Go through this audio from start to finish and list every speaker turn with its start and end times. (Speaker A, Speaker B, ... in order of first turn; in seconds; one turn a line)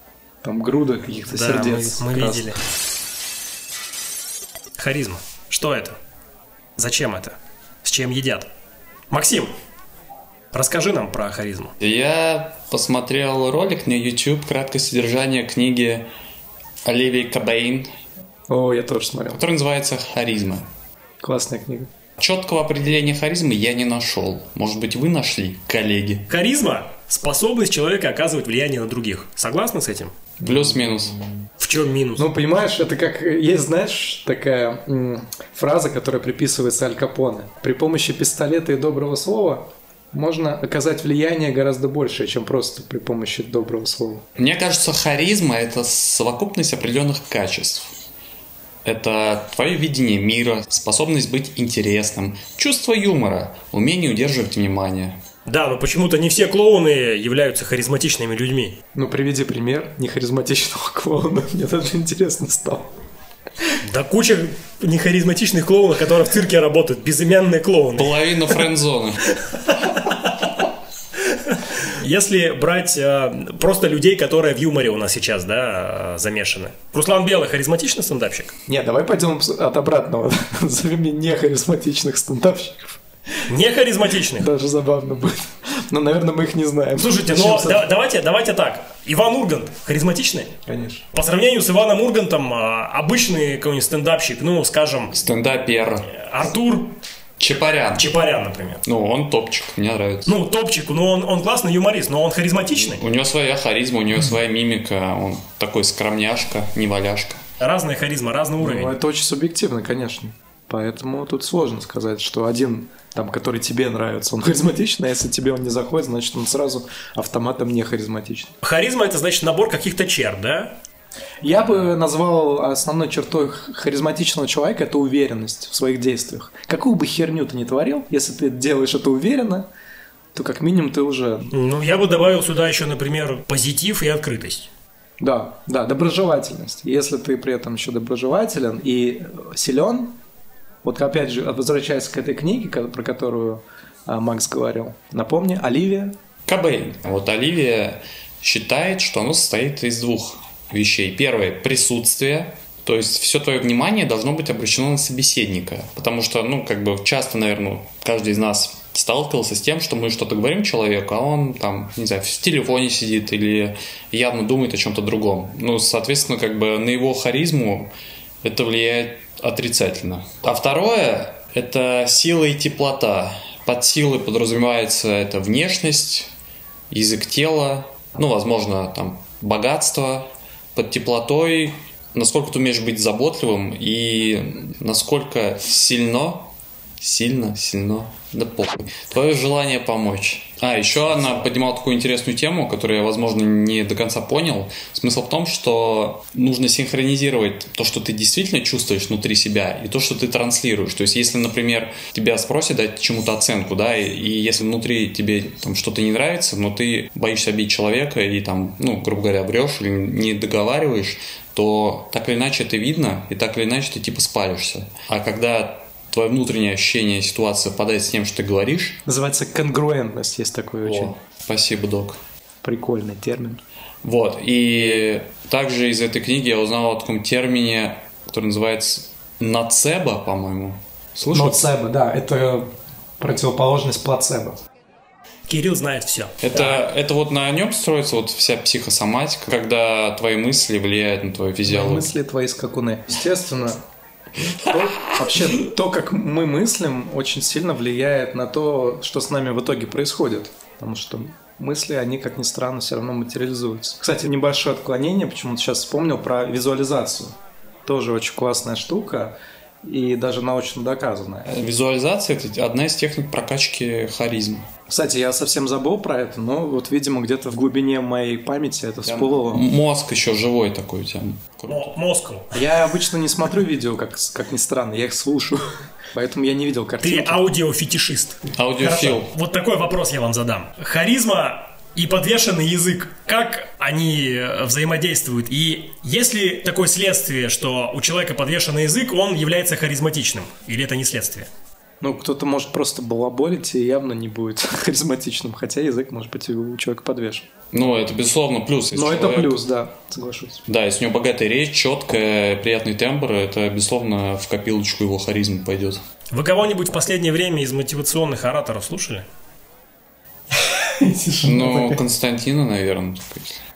Speaker A: 0.4-2.5
Speaker B: 1.3-2.6
Speaker B: 4.8-6.0
Speaker B: 6.8-8.5
Speaker B: 9.1-9.5
Speaker B: 10.5-11.7
Speaker C: 11.8-16.1
Speaker C: 16.8-17.9
Speaker A: 18.5-19.4
Speaker C: 19.3-20.7
Speaker A: 21.2-21.9
Speaker C: 22.2-26.2
Speaker B: 26.3-30.1
Speaker C: 30.4-31.2
Speaker B: 31.6-32.2
Speaker A: 32.2-44.2
Speaker C: 44.4-47.9
Speaker C: 48.8-55.2
Speaker B: 55.5-58.8
Speaker A: 58.9-62.9
Speaker B: 63.8-68.7
Speaker C: 67.9-69.2
Speaker B: 69.2-70.5
Speaker B: 71.3-78.5
Speaker A: 78.7-83.0
Speaker B: 83.5-84.5
Speaker A: 84.3-87.8
Speaker B: 87.0-90.5
Speaker A: 90.7-91.0
Speaker B: 91.1-95.2
Speaker C: 95.1-96.1
Speaker B: 96.1-97.0
Speaker C: 97.4-98.1
Speaker B: 97.9-98.8
Speaker C: 98.8-100.3
Speaker B: 100.2-103.0
Speaker C: 102.7-107.4
Speaker B: 107.6-108.9
Speaker A: 108.6-118.5
Speaker B: 118.6-120.8
Speaker A: 121.4-129.7
Speaker A: 130.3-131.5
Speaker B: 131.5-134.7
Speaker A: 135.2-140.2
Speaker A: 140.8-146.1
Speaker C: 146.5-167.9
Speaker C: 168.4-176.3
Speaker C: 176.9-219.0
Speaker B: 191.1-191.5
Speaker A: 219.1-221.1
Speaker C: 220.8-222.2
Speaker A: 222.6-223.6
Speaker C: 224.0-231.6
Speaker A: 231.3-232.7
Speaker A: 233.2-234.6
Speaker B: 235.5-236.8
Speaker C: 236.4-242.1
Speaker A: 241.7-243.8
Speaker A: 244.4-257.3
Speaker C: 245.0-245.3
Speaker A: 257.9-261.5
Speaker C: 261.4-264.7
Speaker A: 264.9-269.6
Speaker C: 269.0-271.9
Speaker B: 271.7-272.5
Speaker A: 272.5-277.4
Speaker B: 277.0-291.5
Speaker C: 278.5-279.3
Speaker A: 292.0-297.5
Speaker C: 297.7-299.6
Speaker A: 298.9-300.6
Speaker C: 300.7-306.0
Speaker B: 306.3-309.2
Speaker A: 310.7-312.0
Speaker C: 311.4-313.6